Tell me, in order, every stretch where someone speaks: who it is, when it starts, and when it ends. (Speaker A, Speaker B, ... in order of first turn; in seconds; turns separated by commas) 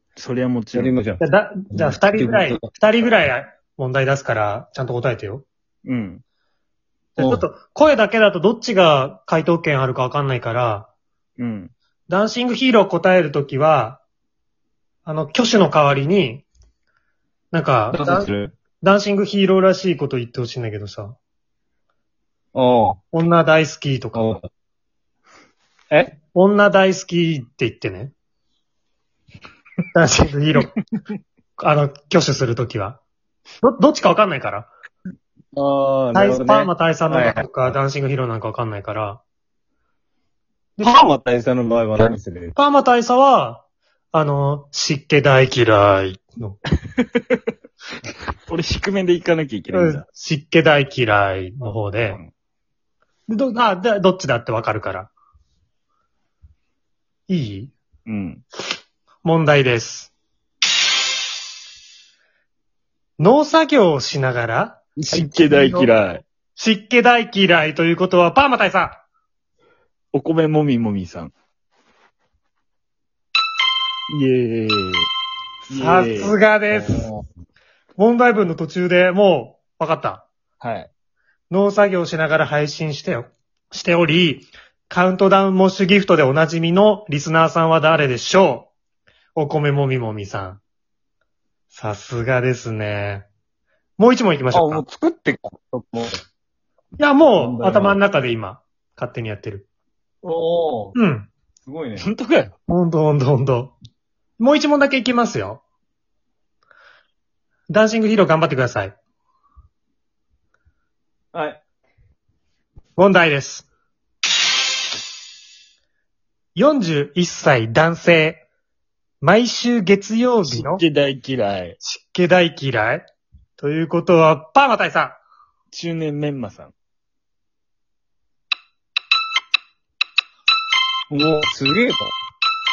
Speaker A: 0.2-1.0, Speaker B: 0.7-2.6, Speaker C: 1.2-5.5, Speaker A: 5.9-6.2, Speaker C: 7.2-10.9, Speaker B: 7.2-7.5, Speaker A: 11.4-11.7, Speaker C: 12.1-14.0, Speaker C: 15.1-16.5, Speaker C: 17.5-21.2, Speaker B: 17.9-18.5, Speaker B: 22.5-23.0, Speaker C: 23.1-24.3, Speaker B: 24.1-24.5, Speaker B: 25.9-26.2, Speaker C: 26.3-28.1, Speaker C: 29.9-30.7, Speaker C: 31.6-33.0, Speaker C: 33.6-34.7, Speaker B: 35.5-37.5, Speaker C: 36.1-39.2, Speaker C: 40.8-41.0, Speaker B: 40.8-42.5, Speaker C: 42.5-46.6, Speaker A: 48.5-50.0, Speaker C: 49.7-52.2, Speaker C: 53.3-55.1, Speaker C: 57.3-57.7, Speaker A: 58.1-58.4, Speaker C: 59.2-60.1, Speaker C: 63.2-65.9, Speaker A: 65.0-66.2, Speaker C: 66.6-69.0, Speaker A: 70.1-71.3, Speaker A: 74.1-75.1, Speaker A: 75.7-76.8, Speaker C: 75.7-77.1, Speaker B: 76.9-77.2, Speaker C: 78.0-80.3, Speaker A: 80.6-80.9, Speaker C: 81.5-88.7, Speaker C: 89.4-90.6, Speaker C: 91.7-93.3, Speaker C: 94.0-94.8, Speaker B: 94.5-96.2, Speaker C: 97.0-99.7, Speaker B: 97.3-98.0, Speaker B: 100.2-101.0, Speaker C: 101.0-101.3, Speaker B: 101.6-102.1, Speaker A: 102.0-102.5, Speaker C: 102.7-103.7, Speaker C: 104.4-105.6, Speaker C: 107.7-109.0, Speaker B: 111.3-111.6, Speaker C: 113.0-113.7, Speaker C: 116.5-118.4, Speaker C: 119.2-120.8, Speaker A: 120.5-121.8, Speaker C: 121.8-123.1, Speaker C: 123.6-125.2, Speaker A: 125.7-126.7, Speaker B: 131.1-132.1